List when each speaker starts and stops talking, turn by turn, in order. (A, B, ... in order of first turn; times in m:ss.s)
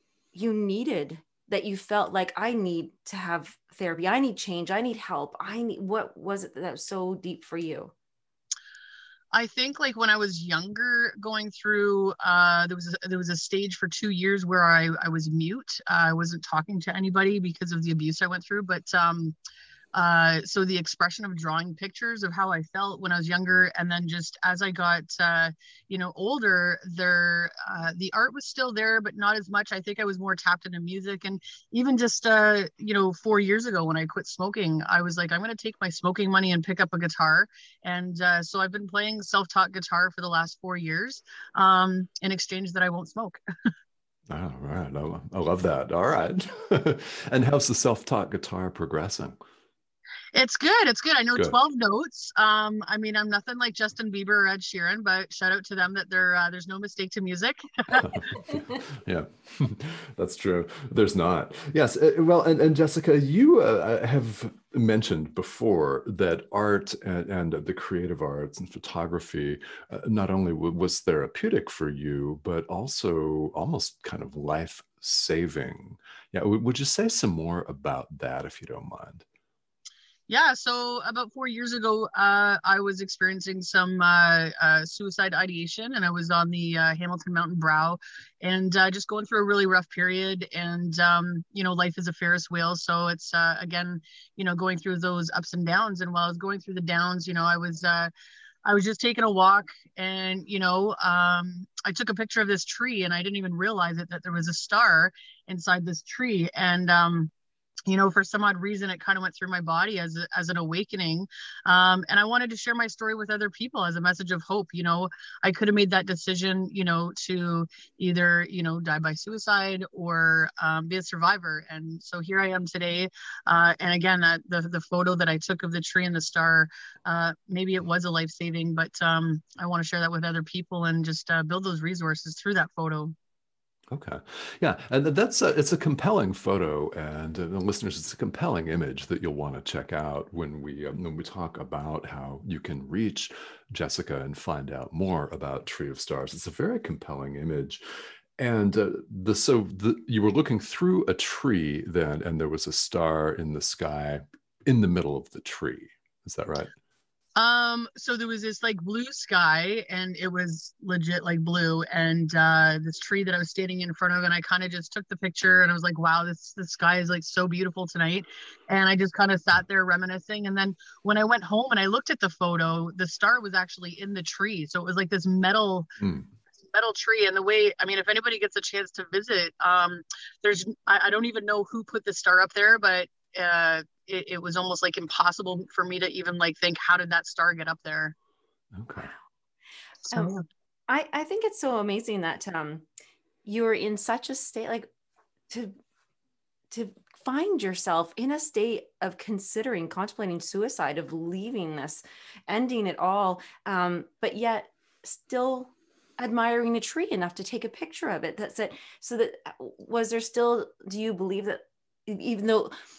0:00.3-0:07.9 A
0:09.3-0:19.4 B
0:19.9-0:43.4 B
0:44.3-0:49.4 C
0:50.3-0:58.0 B
0:58.0-1:19.2 C
1:20.3-1:38.1 B
1:38.6-1:47.3 B
1:47.9-2:13.1 B
2:13.9-2:27.8 C
2:28.4-2:36.7 C
2:37.4-2:55.9 B
2:56.7-3:08.1 B
3:08.7-3:09.1 C
3:10.1-3:10.4 B
3:10.1-3:10.4 A
3:10.9-3:12.8 A
3:13.4-3:14.9 A
3:15.5-3:15.8 A
3:16.7-3:32.7 A